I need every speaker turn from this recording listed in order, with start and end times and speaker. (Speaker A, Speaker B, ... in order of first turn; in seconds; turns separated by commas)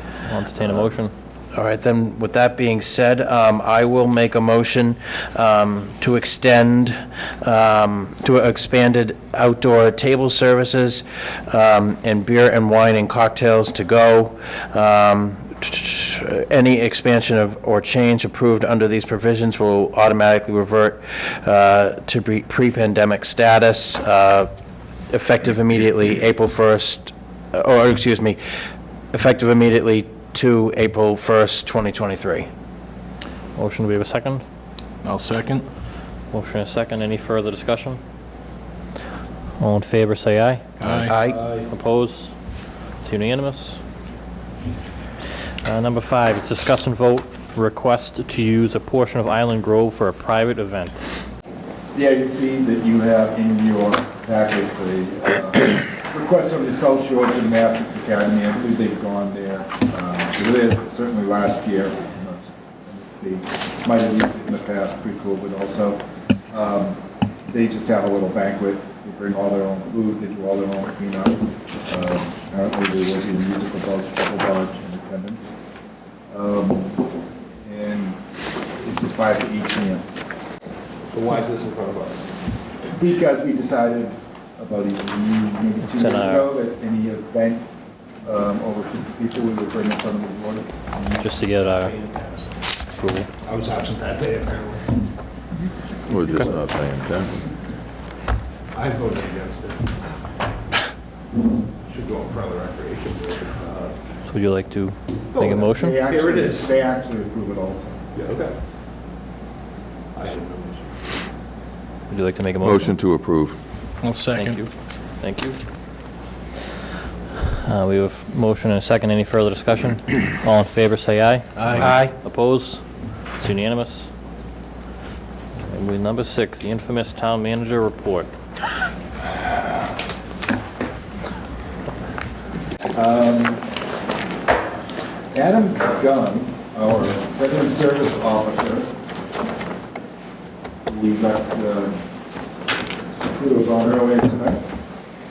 Speaker A: 0.2-1.1, Speaker B: 1.5-24.5, Speaker B: 25.1-28.4, Speaker B: 29.1-32.5, Speaker A: 33.6-34.4, Speaker C: 35.0-35.6, Speaker A: 36.3-38.0, Speaker A: 39.6-42.3, Speaker C: 40.8-41.1, Speaker B: 41.0-41.4, Speaker D: 41.3-41.7, Speaker A: 43.0-43.8, Speaker A: 45.6-51.0, Speaker E: 51.9-75.5, Speaker E: 76.3-77.1, Speaker E: 77.6-78.2, Speaker E: 78.8-80.1, Speaker D: 81.1-82.2, Speaker E: 82.9-87.7, Speaker A: 85.8-86.5, Speaker E: 88.2-91.2, Speaker A: 91.2-91.9, Speaker D: 91.7-92.5, Speaker A: 93.0-93.3, Speaker D: 93.4-95.0, Speaker F: 96.1-97.4, Speaker D: 98.7-100.0, Speaker D: 101.9-104.0, Speaker A: 104.3-106.0, Speaker D: 105.3-106.7, Speaker E: 105.7-108.0, Speaker D: 108.2-108.5, Speaker D: 110.2-110.9, Speaker A: 112.1-113.0, Speaker F: 112.6-113.6, Speaker C: 114.0-114.6, Speaker A: 114.3-114.7, Speaker A: 115.2-115.6, Speaker A: 117.4-122.8, Speaker C: 121.6-121.9, Speaker B: 121.8-122.2, Speaker A: 123.4-124.1, Speaker A: 125.7-128.3, Speaker E: 132.9-133.7, Speaker E: 135.3-138.9, Speaker E: 140.9-142.0, Speaker E: 143.1-144.6